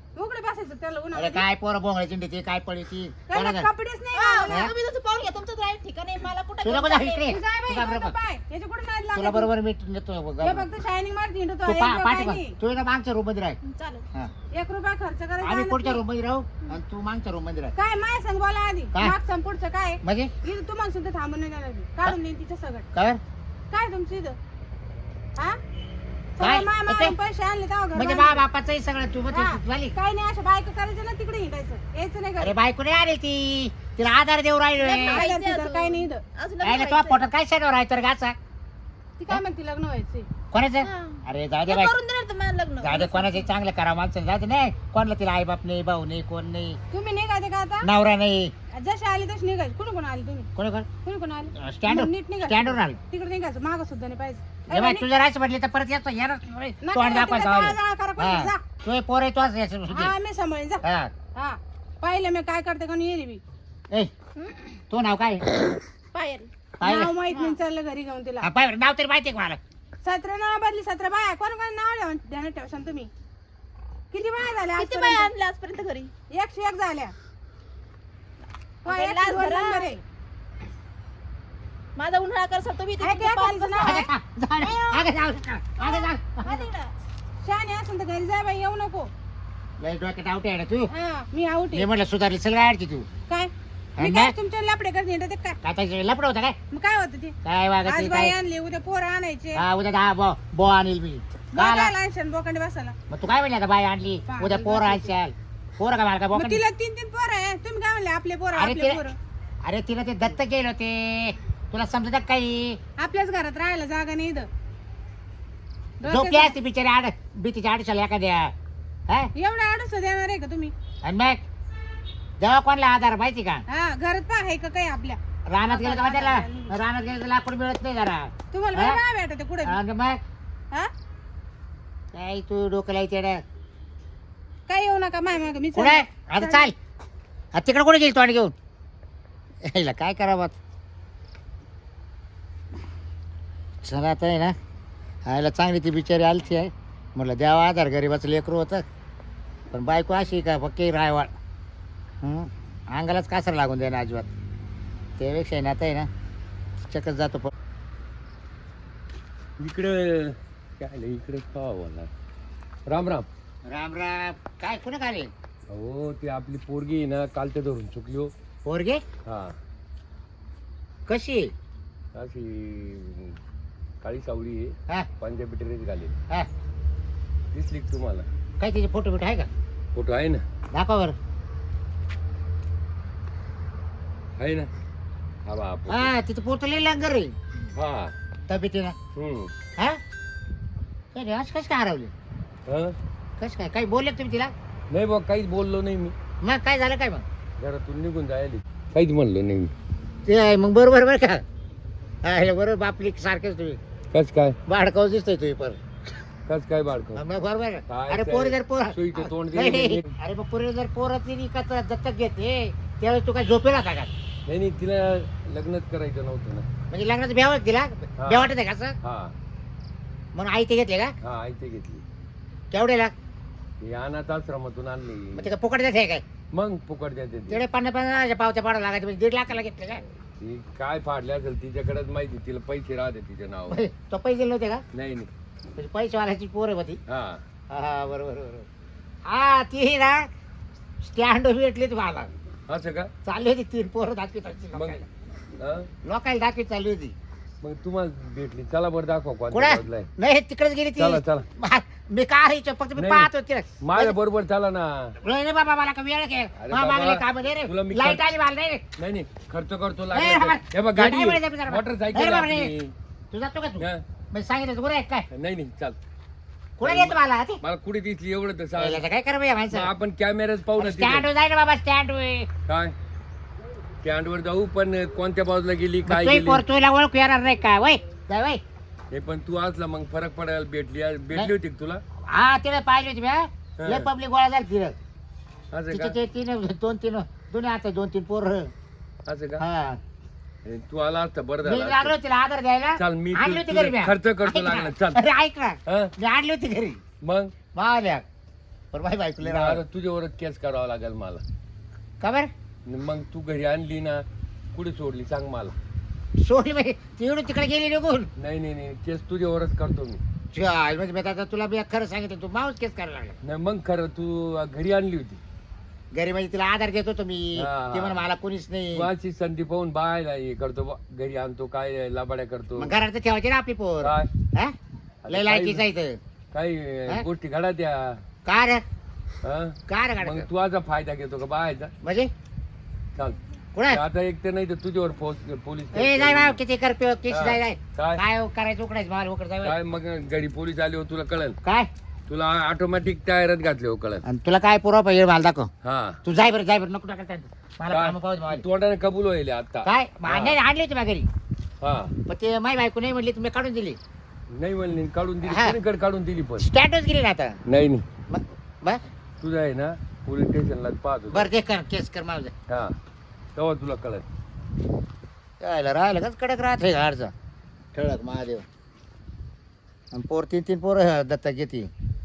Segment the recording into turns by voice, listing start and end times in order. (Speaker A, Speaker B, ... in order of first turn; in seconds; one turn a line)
Speaker A: 0.1-1.4
Speaker B: 1.1-3.7
Speaker A: 3.3-4.7
Speaker C: 4.1-7.2
Speaker D: 6.2-6.7
Speaker B: 6.6-8.1
Speaker A: 7.2-9.5
Speaker B: 9.1-10.7
Speaker A: 10.4-12.6
Speaker B: 11.6-13.6
Speaker C: 13.6-14.0
Speaker A: 14.5-16.0
Speaker B: 15.4-17.7
Speaker A: 17.8-22.9
Speaker B: 20.0-20.3
Speaker B: 22.9-23.2
Speaker A: 23.7-24.4
Speaker A: 26.4-28.4
Speaker B: 26.4-27.1
Speaker B: 27.9-29.9
Speaker A: 29.3-32.5
Speaker B: 32.4-35.2
Speaker A: 34.8-36.2
Speaker C: 35.2-36.1
Speaker D: 36.4-37.2
Speaker B: 36.6-38.4
Speaker A: 39.2-40.3
Speaker B: 40.5-41.9
Speaker C: 40.8-41.2
Speaker C: 41.8-43.1
Speaker B: 42.8-46.8
Speaker A: 43.2-43.5
Speaker A: 46.9-47.9
Speaker B: 47.8-48.5
Speaker A: 48.7-50.5
Speaker B: 50.5-50.9
Speaker A: 51.0-55.1
Speaker B: 51.5-53.0
Speaker B: 54.7-60.1
Speaker A: 56.8-58.6
Speaker A: 59.9-60.8
Speaker B: 60.8-61.1
Speaker A: 61.3-63.4
Speaker B: 64.9-65.5
Speaker C: 66.1-66.5
Speaker B: 66.8-67.1
Speaker A: 66.8-68.5
Speaker C: 67.3-67.5
Speaker B: 68.4-69.6
Speaker A: 70.0-73.1
Speaker A: 74.1-75.3
Speaker C: 74.8-76.1
Speaker A: 76.3-77.1
Speaker C: 78.8-80.0
Speaker A: 78.8-80.0
Speaker C: 82.0-83.9
Speaker A: 83.0-84.1
Speaker B: 83.8-86.6
Speaker C: 84.6-85.0
Speaker C: 85.8-86.9
Speaker A: 87.4-89.1
Speaker B: 89.8-90.9
Speaker A: 90.9-91.9
Speaker B: 91.7-93.1
Speaker A: 93.3-95.6
Speaker B: 94.0-94.3
Speaker B: 95.6-96.6
Speaker A: 96.7-97.3
Speaker B: 97.4-98.3
Speaker A: 97.8-99.6
Speaker B: 99.5-101.9
Speaker A: 101.5-102.9
Speaker B: 103.1-106.6
Speaker A: 104.3-105.1
Speaker A: 106.3-109.2
Speaker B: 108.5-109.0
Speaker B: 109.6-112.8
Speaker A: 113.0-114.5
Speaker A: 116.0-116.5
Speaker B: 116.0-118.5
Speaker A: 119.3-120.7
Speaker B: 121.0-121.4
Speaker B: 122.4-123.6
Speaker A: 123.7-126.8
Speaker B: 125.5-129.0
Speaker A: 128.5-129.8
Speaker B: 129.6-130.2
Speaker B: 132.1-133.4
Speaker A: 134.7-136.7
Speaker B: 135.7-136.7
Speaker B: 137.5-138.5
Speaker B: 139.6-140.6
Speaker B: 143.8-144.5
Speaker B: 145.2-148.8
Speaker B: 149.7-151.3
Speaker B: 152.2-154.3
Speaker B: 155.2-156.1
Speaker B: 156.8-157.5
Speaker D: 159.6-162.1
Speaker D: 162.9-163.3
Speaker B: 163.7-165.3
Speaker D: 165.7-168.3
Speaker B: 168.6-169.0
Speaker D: 169.2-169.5
Speaker B: 171.1-171.5
Speaker D: 172.1-173.4
Speaker D: 174.0-176.1
Speaker D: 177.5-178.2
Speaker B: 178.6-179.5
Speaker D: 179.9-180.4
Speaker B: 180.7-181.1
Speaker D: 184.4-184.7
Speaker D: 185.4-186.0
Speaker B: 185.9-187.4
Speaker D: 187.8-188.1
Speaker B: 188.5-188.9
Speaker D: 189.2-189.5
Speaker B: 191.1-192.1
Speaker D: 192.7-192.9
Speaker B: 193.4-194.5
Speaker D: 194.9-196.1
Speaker B: 196.4-197.2
Speaker D: 197.6-199.7
Speaker B: 200.2-201.4
Speaker B: 202.2-203.8
Speaker D: 204.1-204.5
Speaker B: 204.7-205.8
Speaker D: 206.5-207.1
Speaker B: 207.1-214.1
Speaker D: 207.9-210.1
Speaker D: 214.5-216.7
Speaker B: 216.9-219.0
Speaker D: 219.0-219.3
Speaker B: 220.3-221.1
Speaker D: 221.2-222.0
Speaker B: 222.7-223.1
Speaker D: 223.8-225.3
Speaker B: 225.3-226.2
Speaker D: 226.5-227.5
Speaker B: 227.5-230.0
Speaker D: 230.4-233.6
Speaker B: 233.7-234.8
Speaker D: 234.9-235.3
Speaker B: 235.8-237.0
Speaker D: 237.1-237.4
Speaker B: 237.7-238.7
Speaker B: 239.2-240.3
Speaker B: 241.0-242.3
Speaker D: 242.7-243.1
Speaker B: 243.2-245.1
Speaker D: 245.6-245.8
Speaker B: 246.0-247.1
Speaker D: 247.6-250.0
Speaker B: 249.5-254.2
Speaker D: 251.0-251.4
Speaker D: 253.0-253.2
Speaker D: 253.9-255.1
Speaker B: 255.2-258.8
Speaker D: 256.6-258.2
Speaker D: 259.0-262.9
Speaker B: 260.1-262.7
Speaker B: 263.3-265.3
Speaker D: 265.3-266.0
Speaker B: 266.8-267.6
Speaker D: 266.8-268.9
Speaker B: 268.8-269.9
Speaker D: 269.8-271.2
Speaker B: 270.8-272.5
Speaker D: 272.7-272.9
Speaker D: 274.0-276.6
Speaker B: 276.0-278.6
Speaker D: 279.1-282.0
Speaker B: 282.3-284.9
Speaker D: 283.8-284.1
Speaker D: 285.7-286.1
Speaker B: 285.9-288.7
Speaker D: 289.3-289.6
Speaker B: 289.6-290.0
Speaker D: 290.6-292.1
Speaker B: 291.6-297.0
Speaker D: 293.0-294.9
Speaker D: 297.2-297.5
Speaker B: 297.7-298.2
Speaker B: 298.9-299.8
Speaker D: 299.5-301.4
Speaker B: 302.2-302.5
Speaker D: 302.9-304.2
Speaker D: 304.7-305.7
Speaker B: 306.4-308.3
Speaker D: 308.4-310.2
Speaker B: 310.5-313.4
Speaker D: 313.4-315.4
Speaker B: 316.1-319.1
Speaker D: 317.6-318.1
Speaker D: 318.9-322.8
Speaker B: 322.8-324.7
Speaker D: 325.2-325.8
Speaker B: 325.3-326.2
Speaker D: 326.5-328.2
Speaker B: 328.4-328.8
Speaker B: 329.9-330.5
Speaker D: 330.2-331.9
Speaker B: 332.0-332.3
Speaker B: 333.7-334.0
Speaker D: 333.9-336.4
Speaker B: 335.9-339.8
Speaker D: 337.3-338.1
Speaker D: 339.7-341.5
Speaker B: 341.6-341.9
Speaker D: 342.3-344.2
Speaker B: 344.2-345.7
Speaker D: 345.8-346.1
Speaker B: 346.2-348.6
Speaker D: 347.9-349.8
Speaker B: 349.8-351.3
Speaker D: 351.8-352.1
Speaker B: 352.3-354.0
Speaker D: 354.6-356.6
Speaker B: 355.4-355.8
Speaker B: 356.6-357.6
Speaker D: 357.7-358.0
Speaker B: 358.3-359.0
Speaker D: 359.4-361.4
Speaker B: 361.3-362.5
Speaker D: 363.6-364.2
Speaker B: 365.6-367.3
Speaker B: 367.9-368.6
Speaker B: 370.1-371.9